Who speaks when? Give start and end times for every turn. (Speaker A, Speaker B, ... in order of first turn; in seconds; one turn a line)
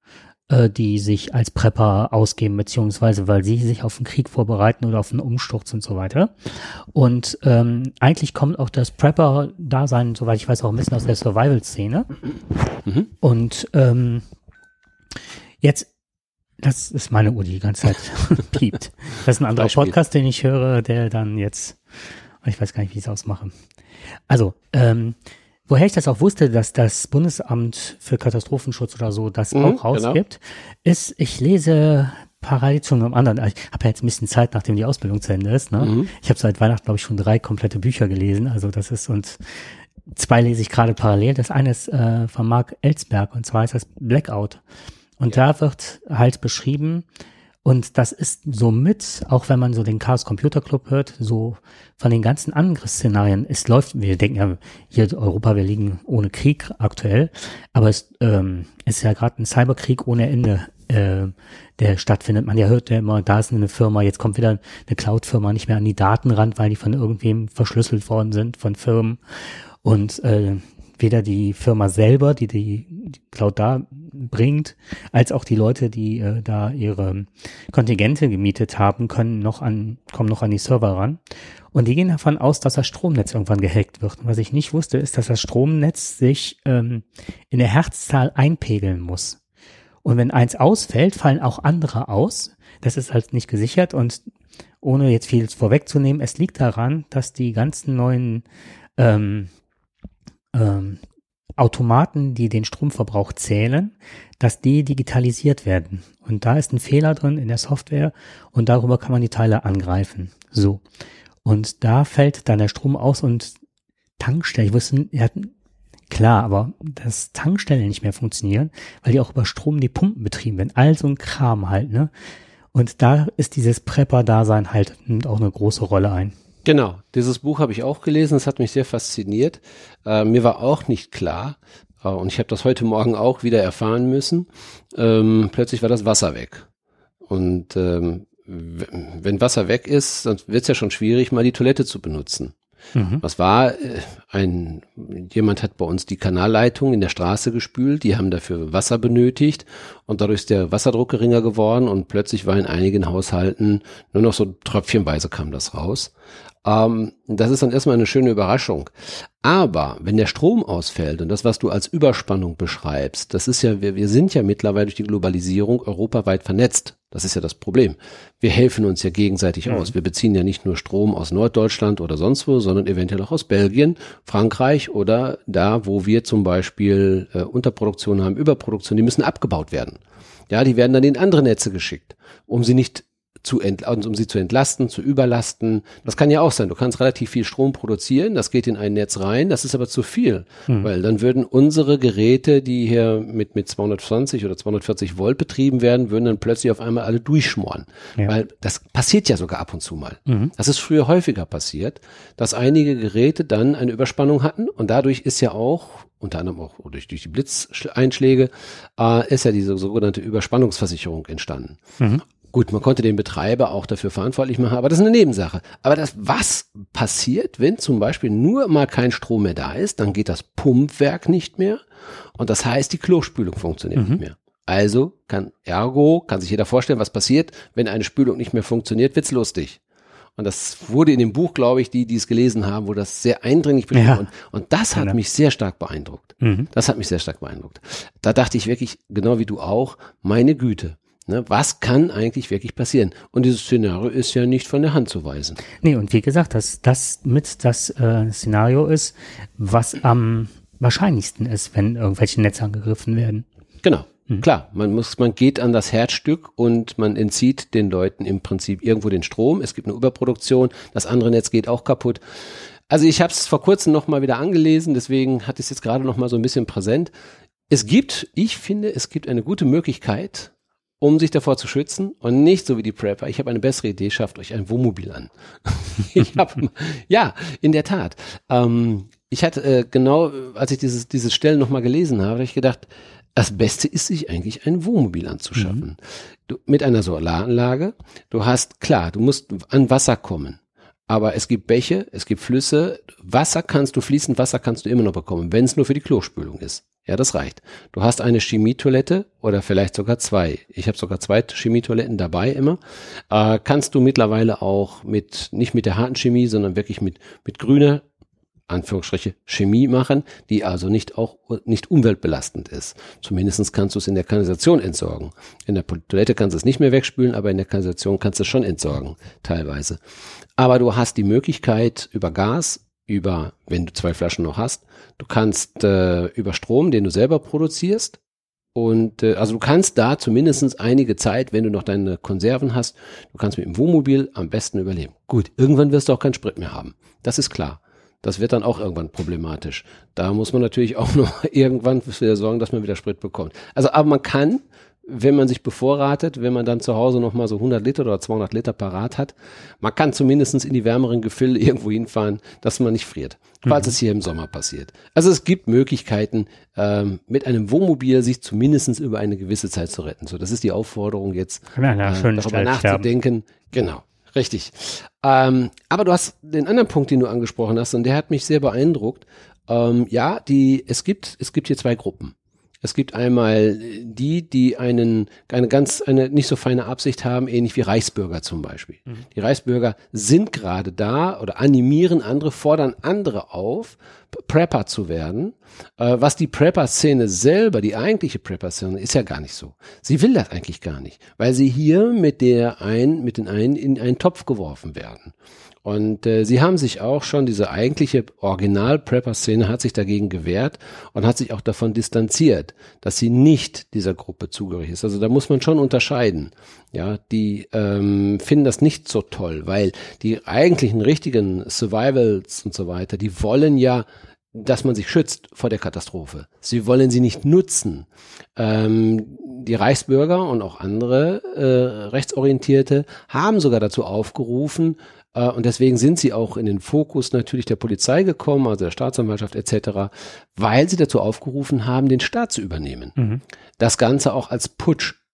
Speaker A: 0.5-12.1
Speaker A: 13.2-14.2
Speaker A: 15.6-15.9
Speaker A: 16.6-21.8
Speaker B: 19.6-19.9
Speaker A: 22.4-23.5
Speaker A: 24.3-25.1
Speaker A: 25.7-39.4
Speaker B: 29.5-30.2
Speaker B: 35.8-36.1
Speaker A: 40.1-44.6
Speaker A: 45.2-47.0
Speaker A: 47.6-69.2
Speaker A: 69.8-81.2
Speaker A: 81.7-89.4
Speaker A: 90.0-94.2
Speaker A: 94.8-98.4
Speaker A: 99.0-99.5
Speaker A: 100.5-101.0
Speaker A: 101.6-110.8
Speaker A: 111.4-113.5
Speaker A: 114.2-115.5
Speaker A: 116.1-122.1
Speaker A: 122.7-126.3
Speaker B: 126.6-136.7
Speaker B: 137.2-142.6
Speaker A: 142.9-143.2
Speaker B: 143.2-156.1
Speaker B: 156.6-211.8
Speaker A: 169.7-169.9
Speaker A: 200.3-200.5
Speaker B: 212.4-221.8
Speaker B: 222.3-229.8
Speaker A: 223.9-224.2
Speaker B: 230.4-245.6
Speaker A: 233.9-234.2
Speaker A: 236.4-236.7
Speaker A: 245.8-253.4
Speaker B: 253.8-267.1
Speaker B: 267.7-302.8
Speaker A: 285.6-285.8
Speaker B: 303.3-308.0
Speaker B: 308.7-320.0
Speaker B: 320.6-328.2
Speaker B: 328.7-395.3
Speaker A: 353.6-353.9
Speaker A: 361.7-363.1
Speaker B: 395.8-433.1
Speaker A: 433.1-433.4
Speaker B: 433.8-435.2